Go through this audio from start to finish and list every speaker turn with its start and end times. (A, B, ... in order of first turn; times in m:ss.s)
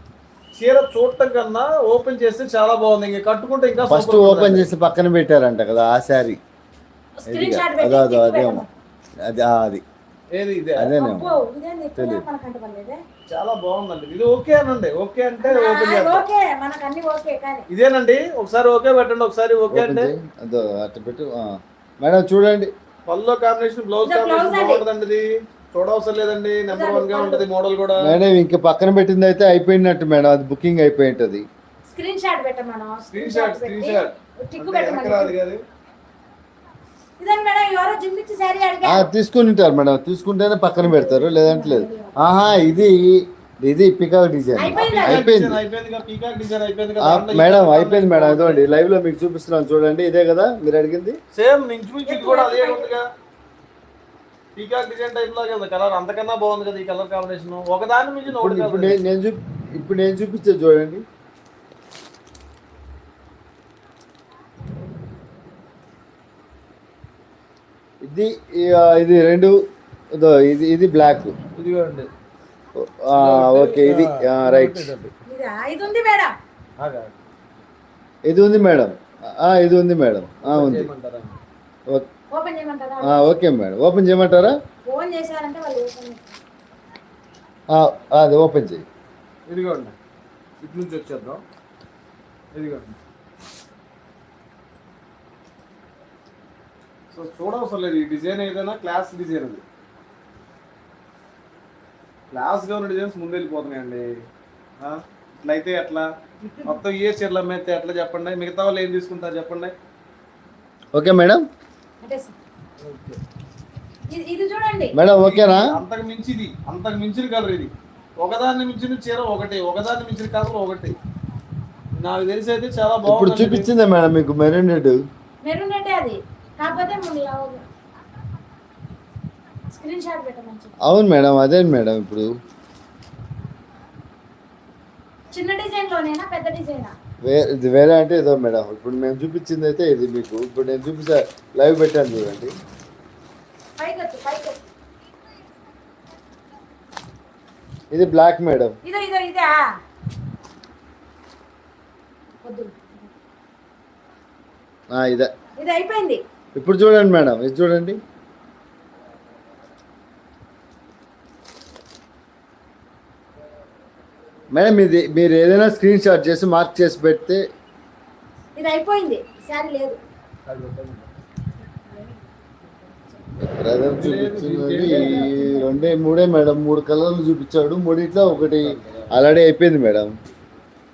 0:00.5-0:04.7 A
0:03.9-0:06.4 B
0:07.2-0:08.7 C
0:07.3-0:08.6 B
0:09.2-0:09.8 B
0:10.3-0:10.9 A
0:10.8-0:11.4 B
0:10.9-0:13.0 C
0:12.0-0:12.2 B
0:13.3-0:16.2 A
0:15.4-0:17.6 C
0:17.7-0:20.1 A
0:19.7-0:22.7 B
0:23.1-0:28.2 A
0:24.0-0:24.8 C
0:26.7-0:27.5 C
0:28.0-0:31.4 B
0:31.8-0:35.3 C
0:33.1-0:35.6 A
0:37.2-0:39.1 C
0:38.8-0:45.6 B
0:40.8-0:42.5 C
0:44.6-0:45.3 C
0:44.7-0:48.6 A
0:47.0-0:51.2 B
0:51.3-0:53.0 A
0:52.1-0:52.9 C
0:54.5-0:59.0 A
0:58.3-1:01.0 B
1:08.0-1:09.5 B
1:10.1-1:11.4 B
1:11.6-1:12.1 A
1:12.7-1:14.9 B
1:13.1-1:15.1 A
1:15.2-1:16.3 C
1:16.8-1:17.2 A
1:18.2-1:20.9 B
1:20.4-1:21.4 A
1:22.3-1:23.2 C
1:23.0-1:24.6 B
1:24.8-1:26.3 C
1:27.7-1:28.8 B
1:29.5-1:29.9 A
1:30.6-1:31.4 A
1:32.5-1:33.0 A
1:37.1-1:39.6 A
1:42.3-1:44.1 A
1:44.8-1:46.1 A
1:46.4-1:46.8 C
1:46.6-1:49.7 A
1:50.9-1:51.4 B
1:52.0-1:52.3 C
1:52.8-1:53.2 A
1:54.1-1:54.9 C
1:54.9-1:55.7 B
1:55.2-2:01.0 A
2:02.0-2:03.7 A
2:03.0-2:05.0 B
2:05.4-2:07.6 C
2:09.7-2:10.8 C
2:10.8-2:12.3 B
2:15.3-2:16.9 C
2:17.2-2:22.5 B
2:23.8-2:24.6 C
2:27.9-2:28.8 B
2:28.8-2:29.5 C
2:32.4-2:33.1 C
2:34.9-2:35.3 B
2:35.6-2:36.2 C
2:36.5-2:38.0 B
2:44.5-2:47.4 B
2:48.6-2:50.0 C
2:50.4-2:51.1 A
2:51.6-2:53.3 C
2:53.4-3:00.1 B
2:54.0-2:55.2 A
2:54.8-2:55.9 C
2:58.5-2:59.1 A